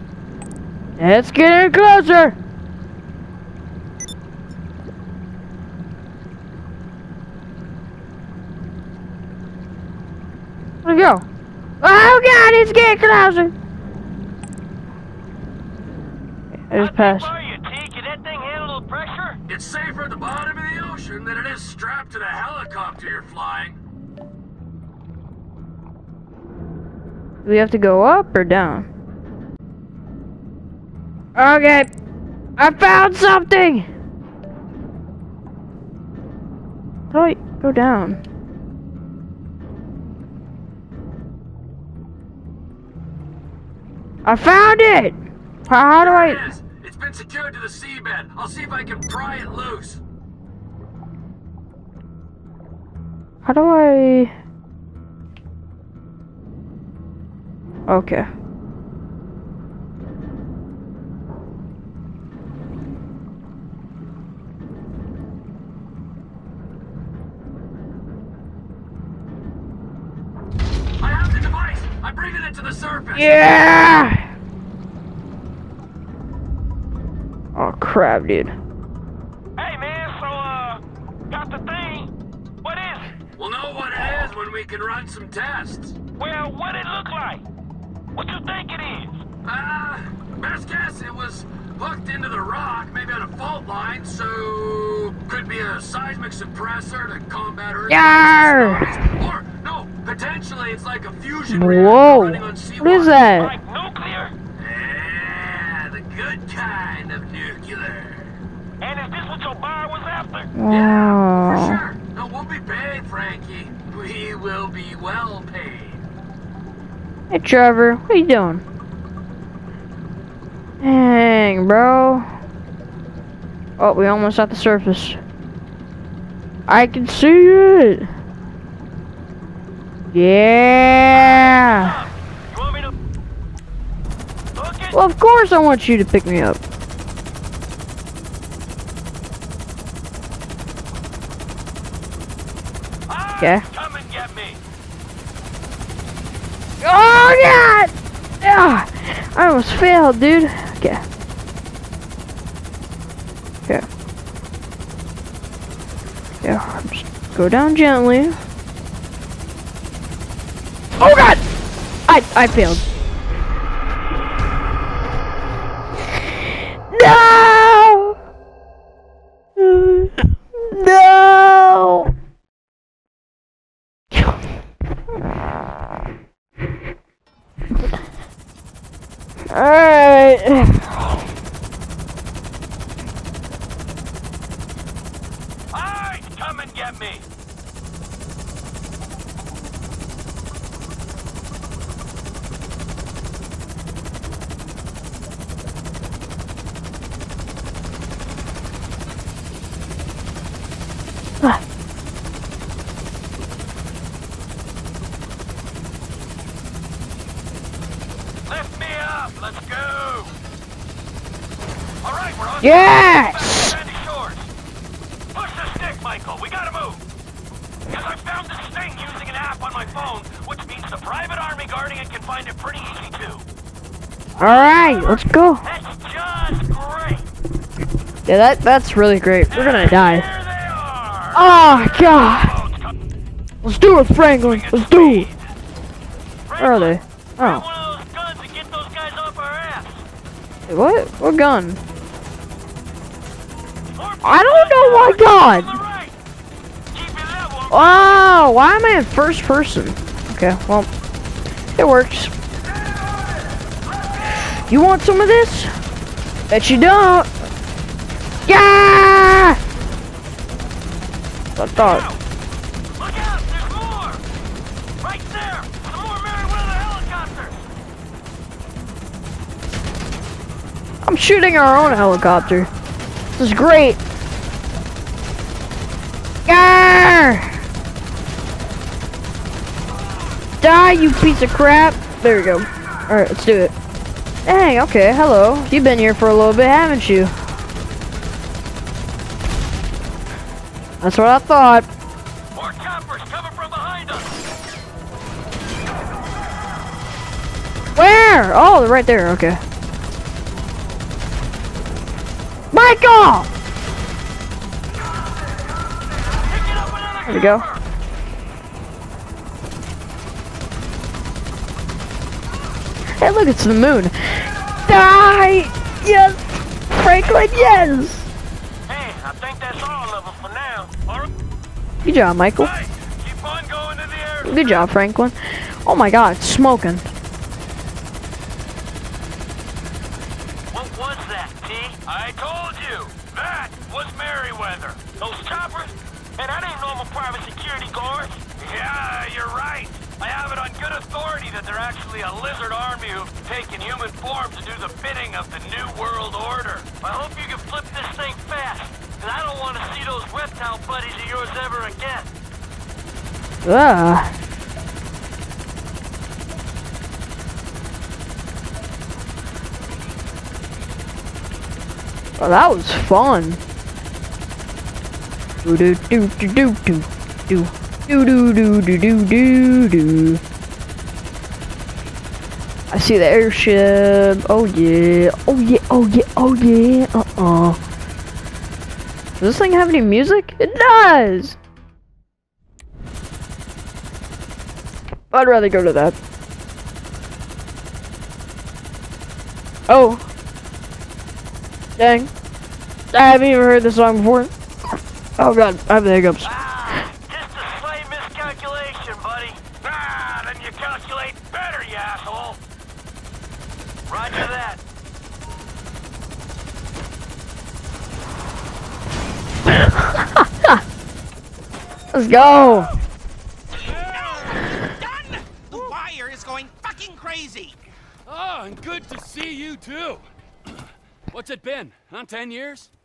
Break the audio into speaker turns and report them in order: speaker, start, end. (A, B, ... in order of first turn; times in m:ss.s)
0:01.0-0:02.4 A
0:10.8-0:11.2 A
0:11.8-0:13.5 A
0:16.7-0:17.3 A
0:16.8-0:19.4 B
0:19.5-0:23.8 C
0:27.4-0:28.9 A
0:31.4-0:31.9 A
0:32.6-0:33.9 A
0:37.1-0:38.2 A
0:44.2-0:46.5 A
0:46.0-0:50.0 C
0:53.4-0:54.3 A
0:57.9-0:58.3 A
1:11.0-1:13.4 C
1:13.1-1:14.3 A
1:17.6-1:18.5 A
1:19.6-1:23.1 B
1:23.4-1:26.0 C
1:26.2-1:27.4 B
1:28.1-1:29.2 B
1:29.4-1:43.2 C
1:37.9-1:39.1 A
1:41.5-1:43.5 A
1:43.3-1:44.4 B
1:44.6-1:48.4 C
1:48.8-1:50.5 B
1:50.6-1:51.8 A
1:50.7-1:56.0 C
1:57.3-1:58.6 A
2:00.8-2:02.3 A
2:03.8-2:05.2 A
2:06.7-2:08.1 A
2:10.1-2:12.0 A
2:11.1-2:12.9 B
2:14.6-2:15.0 B
2:14.9-2:16.6 A
2:23.1-2:24.6 B
2:23.1-2:24.4 C
2:23.4-2:23.6 A
2:26.8-2:31.0 A
2:36.4-2:38.4 A
2:41.0-2:41.4 A
2:42.1-2:42.8 A
2:46.9-2:48.2 A
2:49.6-2:52.1 A
2:59.5-3:01.2 A
3:05.7-3:07.2 C
3:06.0-3:06.4 B
3:28.5-3:30.3 B
3:32.0-3:34.5 B
3:32.6-3:33.8 A
3:35.3-3:37.0 B
3:37.9-3:43.4 B
3:44.4-3:45.6 A
3:44.4-3:47.2 B
3:48.3-3:50.3 A
3:49.5-3:53.0 B
3:51.3-3:52.6 A
3:53.6-3:55.3 A
3:54.4-3:55.5 B
3:56.5-4:00.0 B
3:56.6-3:57.6 A
4:00.7-4:01.8 A
4:03.9-4:06.1 B
4:04.2-4:05.8 A
4:06.9-4:08.3 B
4:07.7-4:10.9 A
4:11.8-4:12.3 A
4:14.7-4:15.7 A
4:16.5-4:17.3 A
4:18.5-4:19.6 A
4:21.6-4:22.1 A
4:21.8-4:22.2 B
4:23.0-4:24.2 B
4:25.0-4:27.6 B
4:31.0-4:32.7 A
4:33.4-4:34.0 A
4:36.5-4:37.6 A
4:40.6-4:43.7 A
4:44.5-4:47.3 A
4:51.0-4:51.9 A
4:52.5-4:54.4 B
4:58.0-4:59.6 A
5:02.7-5:03.5 A
5:06.5-5:07.8 B
5:07.3-5:07.7 A
5:13.2-5:18.3 A
5:18.9-5:21.3 B
5:22.0-5:22.7 A
5:22.6-5:24.8 B
5:24.4-5:27.1 A
5:30.7-5:38.6 B
5:38.6-5:40.2 C
5:40.1-5:52.3 B
5:53.6-5:54.3 A
6:02.4-6:03.6 A
6:05.6-6:10.4 A
6:12.9-6:17.8 A
6:19.4-6:21.6 A
6:25.3-6:26.2 A
6:29.9-6:30.3 A
6:32.0-6:32.3 A
6:33.1-6:34.5 A
6:35.4-6:37.0 A
6:36.4-6:42.6 B
6:44.1-6:44.8 B
6:49.7-6:50.8 A
6:52.1-6:52.9 A
6:53.7-6:57.8 D
6:53.8-6:54.8 C
6:58.3-7:02.9 C